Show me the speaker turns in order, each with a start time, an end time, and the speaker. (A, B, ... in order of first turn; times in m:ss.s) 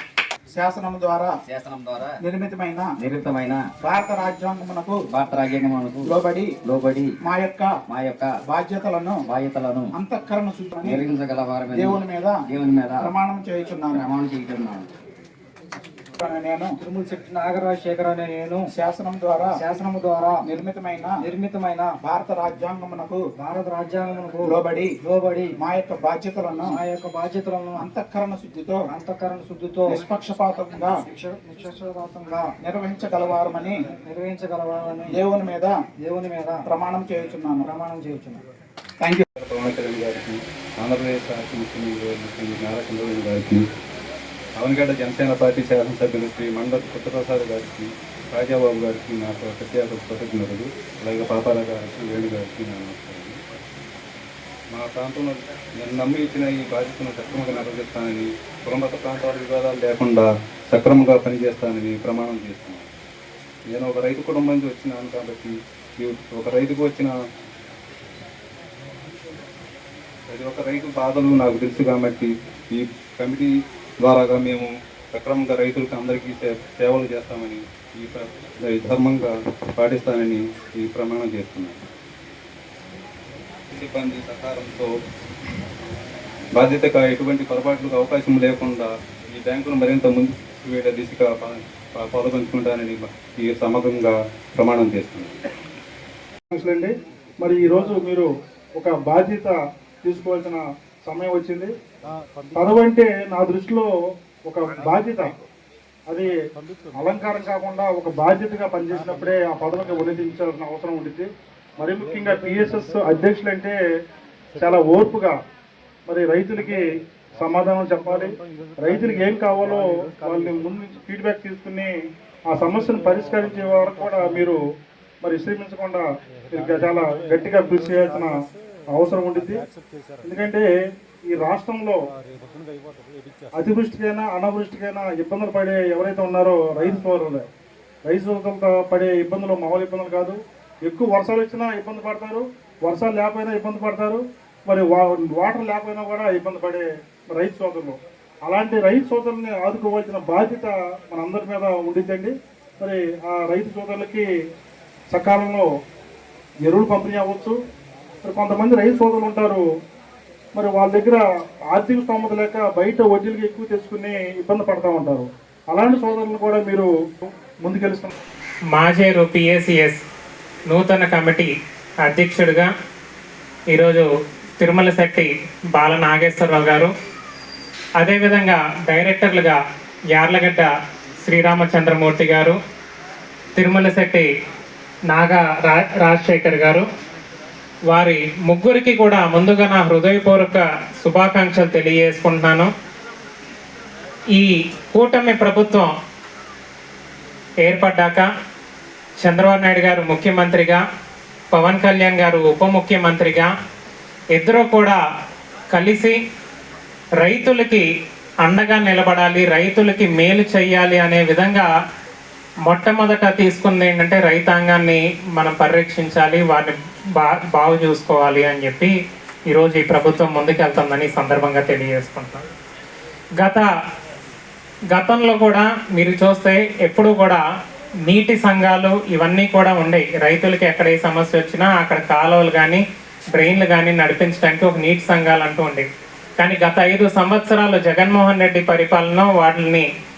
0:00.5-0:01.3 A
0:01.5-0:02.2 B
0:02.2-0:02.9 A
0:03.0-0:03.6 B
0:03.8-0:05.0 A
0:05.1-0:06.1 B
0:06.0-0:06.5 A
0:06.6-0:07.1 B
0:07.2-0:07.8 A
0:07.9-0:08.4 B
0:08.5-0:09.3 A
0:09.3-0:09.9 B
0:09.9-0:11.0 A
0:10.8-0:13.1 B
0:11.7-0:12.4 A
0:13.0-0:14.1 A
0:13.9-0:14.8 B
0:16.2-0:16.7 A
0:16.8-0:18.7 C
0:18.8-0:19.5 A
0:19.6-0:20.4 C
0:20.4-0:21.1 A
0:21.2-0:22.0 C
0:22.0-0:23.2 A
0:23.4-0:25.6 C
0:24.4-0:24.9 A
0:25.6-0:26.8 A
0:26.7-0:27.8 C
0:27.8-0:28.8 A
0:28.9-0:30.0 C
0:29.9-0:31.0 A
0:31.1-0:32.5 C
0:32.6-0:33.8 A
0:33.9-0:35.1 C
0:35.1-0:35.8 A
0:36.0-0:36.6 C
0:36.7-0:37.7 A
0:37.6-0:38.4 C
0:39.4-0:43.6 D
0:44.6-0:53.4 D
0:54.7-1:02.9 D
1:03.7-1:07.1 D
1:10.3-1:13.5 D
1:14.0-1:21.8 D
1:23.7-1:24.9 D
1:26.6-1:35.4 D
1:36.5-1:41.7 E
1:42.5-1:43.9 E
1:44.4-1:45.3 E
1:46.1-1:46.4 E
1:47.0-1:53.8 E
1:54.6-1:55.4 E
1:56.1-2:01.9 E
2:02.5-2:04.6 E
2:05.2-2:08.4 E
2:08.9-2:09.6 E
2:10.2-2:10.7 E
2:11.3-2:12.0 E
2:13.5-2:17.4 E
2:18.0-2:34.3 E
2:35.1-2:35.7 E
2:36.6-2:37.6 E
2:38.2-2:39.6 E
2:40.5-2:48.1 E
2:48.7-2:50.0 F
2:50.7-2:51.5 F
2:52.0-2:52.7 F
2:53.7-2:54.1 F
2:54.6-2:56.9 F
2:58.0-2:59.6 F
3:00.1-3:00.7 F
3:01.2-3:02.6 F
3:03.6-3:04.3 F
3:05.1-3:06.8 F
3:07.9-3:12.7 F
3:14.3-3:15.9 F
3:17.6-3:18.2 F
3:19.2-3:20.8 F
3:21.5-3:23.5 F
3:24.3-3:25.0 F
3:25.7-3:26.2 F
3:27.2-3:27.8 F
3:28.4-3:31.7 F
3:32.7-3:38.9 F
3:39.5-3:42.4 F
3:43.4-3:43.7 F
3:44.9-3:47.4 F
3:48.1-3:52.8 F
3:53.3-3:55.9 F
3:56.4-3:59.8 F